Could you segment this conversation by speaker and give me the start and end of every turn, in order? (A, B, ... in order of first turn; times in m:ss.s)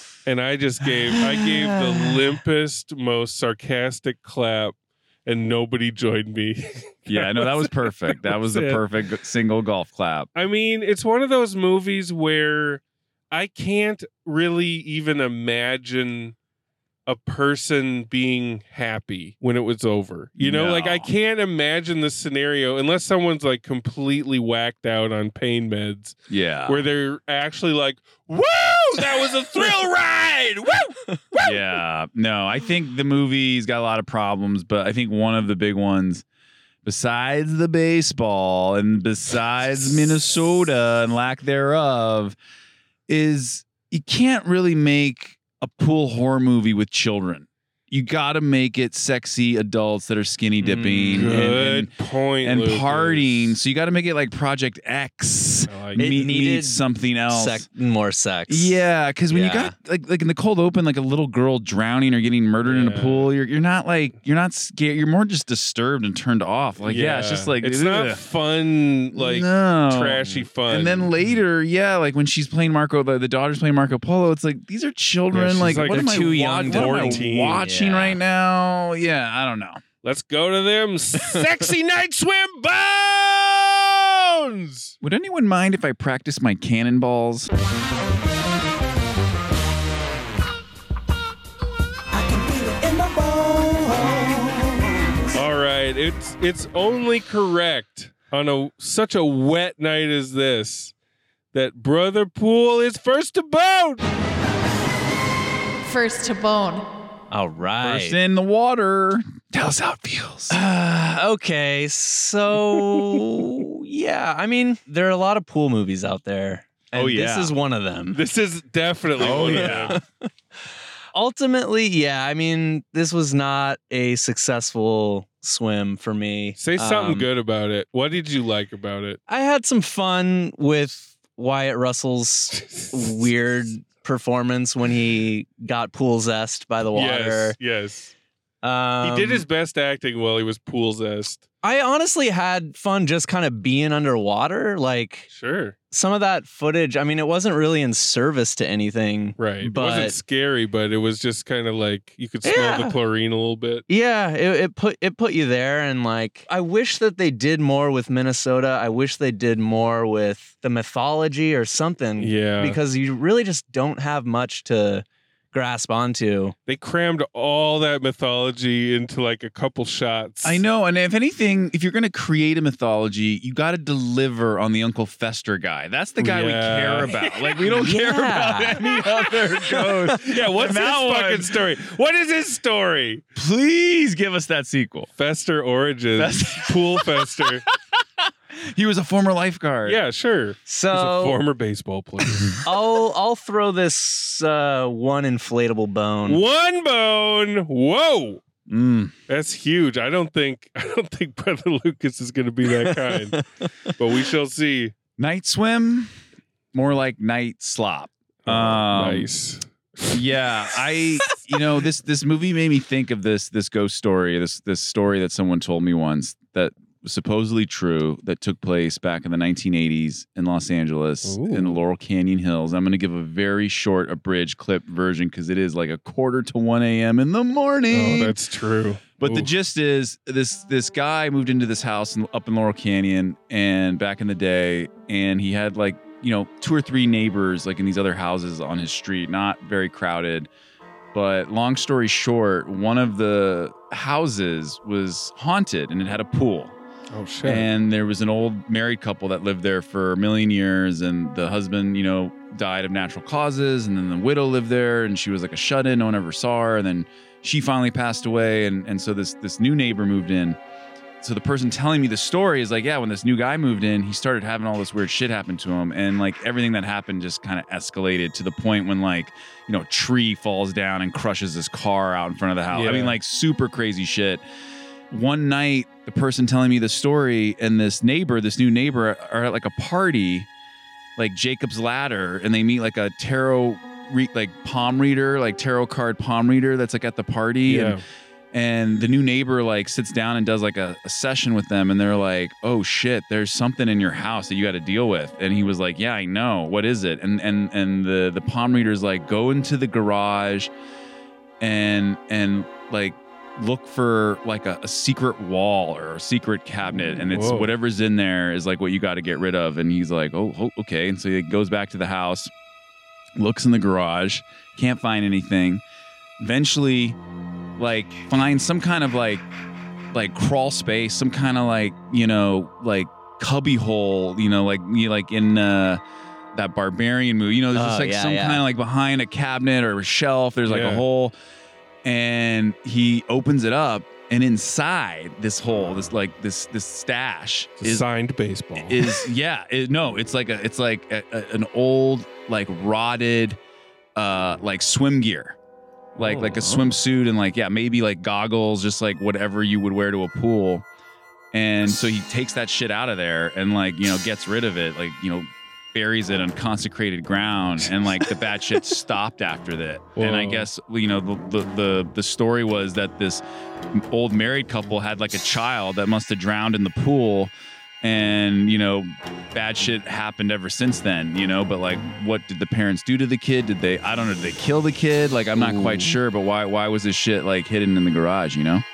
0:00.2-0:08.8 A
0:01.1-0:02.1 B
0:07.1-0:10.3 B
0:10.4-0:16.4 A
0:17.1-0:26.2 A
0:20.4-0:21.1 B
0:26.3-0:26.8 B
0:26.7-0:31.6 A
0:31.4-0:36.2 B
0:36.8-0:42.4 B
0:43.1-0:51.9 B
0:50.6-0:51.5 C
0:51.2-0:53.6 A
0:52.4-0:57.7 B
0:55.7-0:56.2 A
0:56.0-0:59.7 C
0:58.5-1:08.2 B
1:02.6-1:03.3 A
1:06.8-1:11.1 A
1:09.2-1:19.8 B
1:15.3-1:17.6 A
1:15.9-1:18.2 C
1:20.0-1:25.0 A
1:25.0-1:27.5 B
1:32.3-1:34.4 D
1:35.3-1:40.9 A
1:41.5-1:44.0 A
1:45.9-1:46.8 D
1:47.3-1:48.2 C
1:47.8-1:50.6 B
1:50.5-1:58.2 C
1:56.9-1:57.5 B
1:58.1-2:00.0 A
1:59.2-2:00.0 B
1:59.3-2:00.0 C
2:01.1-2:07.3 C
2:06.6-2:09.2 A
2:09.3-2:17.6 C
2:12.7-2:13.3 A
2:17.0-2:18.1 A
2:18.6-2:19.4 C
2:19.0-2:21.4 A
2:21.6-2:25.3 C
2:25.3-2:25.8 A
2:25.9-2:30.2 C
2:29.4-2:33.8 A
2:32.4-2:33.0 C
2:33.9-2:46.6 C
2:42.2-2:42.8 A
2:46.7-2:50.6 A
2:50.4-3:01.5 B
2:56.2-2:57.3 A
2:57.6-2:58.9 C
3:00.2-3:03.2 A
3:03.4-3:05.1 B
3:05.2-3:07.6 A
3:06.2-3:08.0 B
3:08.7-3:10.0 B
3:09.8-3:12.6 A
3:10.7-3:11.4 C
3:12.6-3:16.4 C
3:16.3-3:18.4 A
3:18.7-3:19.1 B
3:19.3-3:23.4 A
3:22.8-3:23.9 C
3:24.0-3:24.9 A
3:25.2-3:26.1 B
3:26.7-3:29.3 B
3:28.4-3:30.2 A
3:30.1-3:48.4 B
3:41.2-3:41.8 A
3:47.9-3:49.5 A
3:49.2-4:00.5 B
4:01.1-4:06.7 B
4:07.1-4:07.7 A
4:07.4-4:20.6 B
4:21.2-4:34.4 B
4:32.7-4:33.2 A
4:35.1-4:40.5 B
4:41.2-4:48.0 B
4:47.7-4:48.0 A
4:48.5-5:00.7 B
5:01.6-5:12.5 B
5:07.2-5:07.7 A
5:13.4-5:15.8 B
5:16.4-5:17.2 B
5:17.8-5:19.4 B
5:20.1-5:26.0 B
5:26.6-5:31.3 B
5:27.7-5:28.6 C
5:30.7-5:31.0 A
5:32.0-5:38.0 B
5:37.8-5:39.1 A
5:38.8-5:43.6 B
5:44.2-5:45.6 B
5:46.2-5:50.8 B
5:46.2-5:46.6 A
5:51.5-6:03.4 B
6:00.2-6:00.7 A
6:03.9-6:07.5 B
6:08.0-6:18.8 B
6:15.6-6:16.2 C